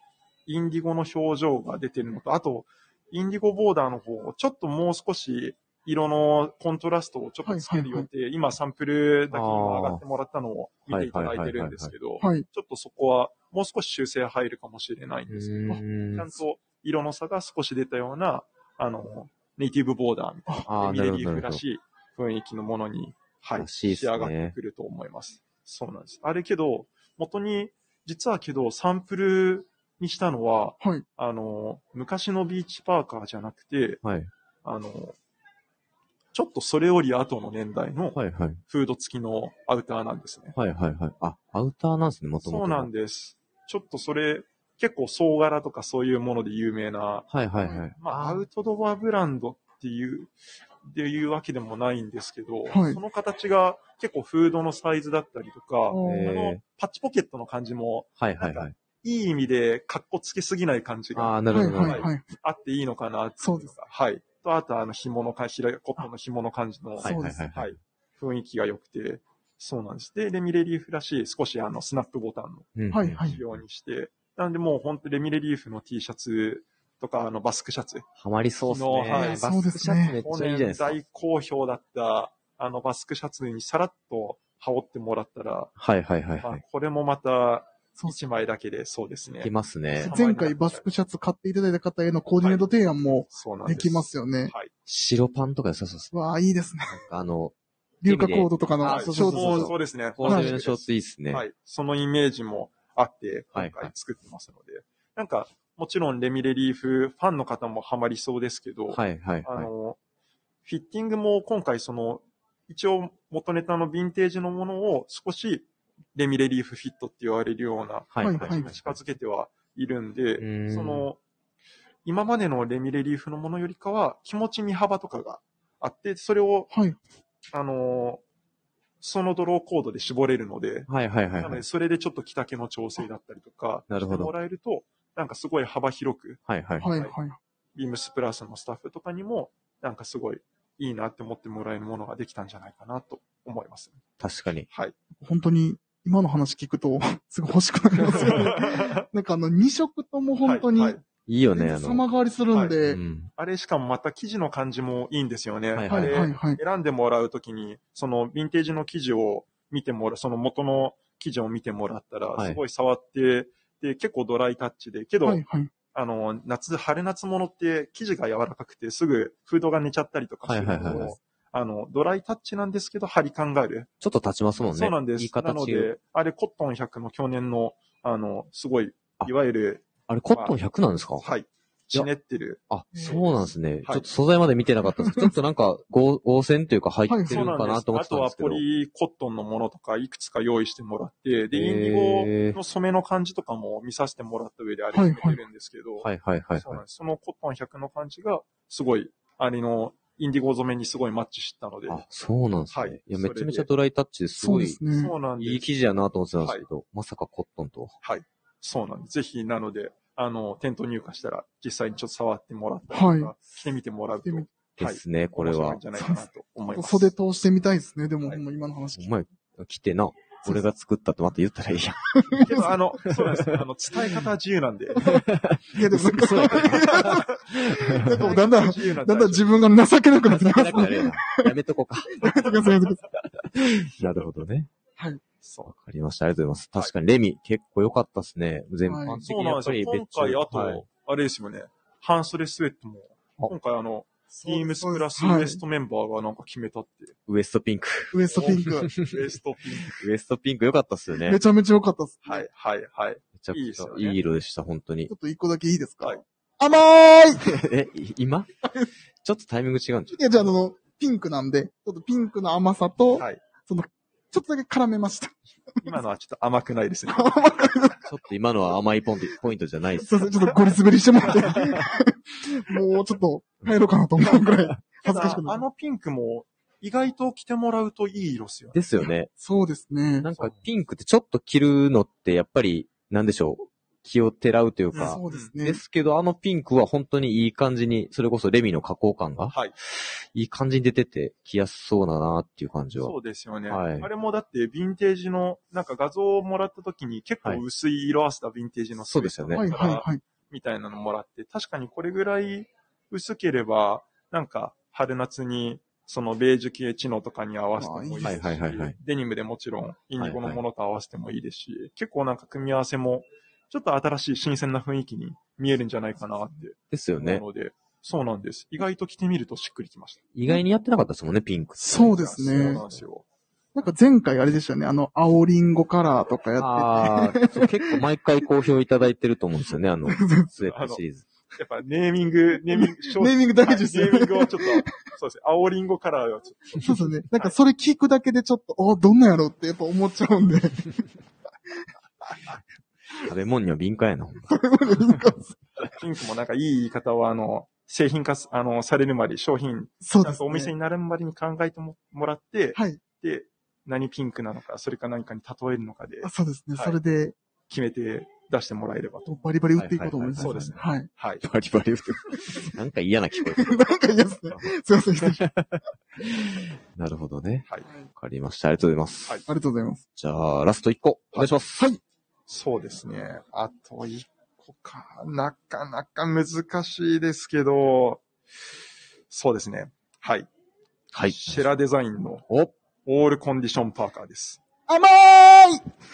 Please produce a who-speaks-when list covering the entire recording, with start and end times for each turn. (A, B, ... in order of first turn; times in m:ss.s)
0:00.5-0:15.5 A
0:07.4-0:08.1 B
0:09.3-0:10.0 C
0:10.9-0:11.9 C
0:12.2-0:12.5 B
0:15.3-0:16.3 C
0:16.2-0:34.0 A
0:20.7-0:21.6 C
0:23.6-0:24.6 C
0:34.0-0:34.3 C
0:34.6-0:35.2 A
0:36.3-0:40.6 A
0:38.2-0:38.6 C
0:40.6-0:42.9 C
0:42.4-0:47.3 A
0:47.3-0:48.5 C
0:47.6-0:47.8 B
0:48.0-0:50.3 A
0:50.8-1:18.1 A
0:52.7-0:53.0 B
0:55.9-0:56.3 B
0:56.0-0:56.6 C
0:58.2-0:58.7 C
1:01.2-1:02.1 C
1:01.5-1:02.3 B
1:03.4-1:03.7 B
1:07.0-1:07.8 C
1:07.0-1:07.4 B
1:12.8-1:13.4 C
1:12.9-1:13.4 B
1:18.2-1:21.0 C
1:18.7-1:19.5 A
1:19.1-1:20.2 B
1:20.1-1:25.7 A
1:25.8-1:26.6 C
1:26.4-1:30.8 A
1:29.4-1:30.1 C
1:30.0-1:34.5 B
1:32.4-1:32.7 A
1:33.3-1:34.7 A
1:34.9-1:36.1 C
1:36.1-1:37.0 B
1:36.9-1:41.4 C
1:38.0-1:39.7 B
1:38.9-1:50.0 A
1:40.2-1:40.6 B
1:43.5-1:43.9 C
1:48.9-1:49.7 C
1:50.6-2:01.2 A
1:58.1-1:59.0 C
1:58.2-1:58.7 B
2:00.4-2:01.1 C
2:02.0-2:06.7 A
2:06.7-2:07.0 B
2:07.5-2:08.2 A
2:09.0-2:17.1 A
2:10.9-2:11.6 C
2:13.9-2:14.3 C
2:16.5-2:16.9 C
2:16.8-2:17.4 B
2:17.8-2:24.0 A
2:24.2-2:24.7 C
2:25.2-2:31.0 B
2:28.1-2:29.0 A
2:30.4-2:31.0 A
2:31.3-2:32.0 C
2:31.6-2:33.0 B
2:32.8-2:33.3 C
2:33.4-2:45.4 A
2:35.8-2:36.2 C
2:35.9-2:36.6 B
2:45.2-2:45.7 B
2:45.9-2:53.9 A
2:50.4-2:51.2 C
2:54.0-2:55.9 C
2:54.7-3:00.6 A
3:00.1-3:01.3 C
3:01.2-3:03.3 A
3:02.7-3:08.6 C
3:02.9-3:03.2 B
3:05.0-3:05.3 B
3:07.1-3:07.6 B
3:07.3-3:16.1 A
3:11.5-3:12.6 C
3:14.9-3:15.4 B
3:16.0-3:16.8 C
3:16.6-3:22.0 A
3:21.9-3:24.8 C
3:22.7-3:23.7 A
3:24.4-3:25.2 B
3:24.9-3:25.7 A
3:25.4-3:28.0 C
3:28.0-3:37.1 A
3:32.9-3:33.3 B
3:34.8-3:35.8 C
3:35.9-3:39.1 B
3:39.0-3:42.4 C
3:42.1-3:42.7 B
3:42.4-3:45.1 A
3:43.1-3:43.5 C
3:45.0-3:51.5 B
3:45.0-3:48.2 C
3:47.0-3:47.2 A
3:48.1-3:49.6 A
3:50.5-3:52.4 C
3:52.2-3:53.0 B
3:53.4-3:54.7 C
3:55.0-3:55.2 B
3:55.4-3:55.7 A
3:55.7-4:00.8 C
3:58.9-3:59.2 B
3:59.3-4:07.1 A
4:04.3-4:05.6 B
4:07.3-4:09.2 C
4:08.1-4:08.9 B
4:08.3-4:10.0 A
4:09.9-4:11.4 C
4:11.2-4:12.5 B
4:12.2-4:14.2 A
4:13.4-4:15.1 C
4:15.1-4:17.5 B
4:17.4-4:18.5 C
4:18.6-4:18.9 B
4:19.2-4:20.2 C
4:20.1-4:26.0 B
4:25.8-4:27.4 A
4:27.1-4:28.0 B
4:28.1-4:30.3 C
4:30.0-4:35.6 B
4:35.0-4:38.8 A
4:38.7-4:39.3 C
4:39.3-4:40.3 B
4:40.2-4:53.2 C
4:44.9-4:45.5 A
4:45.0-4:45.8 B
4:53.0-5:20.3 A
4:53.7-4:54.1 C
4:59.1-4:59.7 C
4:59.6-5:00.2 B
5:07.8-5:08.4 B
5:08.2-5:09.0 C
5:10.2-5:10.6 C
5:16.9-5:17.4 C
5:20.3-5:21.8 C
5:21.8-5:22.8 B
5:22.0-5:23.2 A
5:23.8-5:28.0 B
5:26.6-5:31.2 C
5:30.1-5:30.5 B
5:30.7-5:31.0 A
5:31.6-5:37.6 A
5:32.7-5:34.9 B
5:36.8-5:41.0 B
5:43.2-5:44.6 C
5:44.5-5:45.6 B
5:45.8-5:57.0 A
5:50.0-5:50.7 B
5:52.8-5:53.0 B
5:56.2-5:57.4 B
5:57.7-5:59.3 A
5:59.3-6:01.1 B
5:59.8-6:00.7 C
6:00.4-6:01.4 A
6:01.4-6:03.9 C
6:03.4-6:05.5 B
6:05.2-6:09.4 C
6:09.5-6:10.0 B
6:10.2-6:11.9 C
6:11.3-6:11.6 A
6:12.5-6:18.2 A
6:19.3-6:20.5 A
6:21.1-6:21.7 C
6:21.3-6:22.4 A
6:23.1-6:24.6 A
6:24.9-6:25.9 B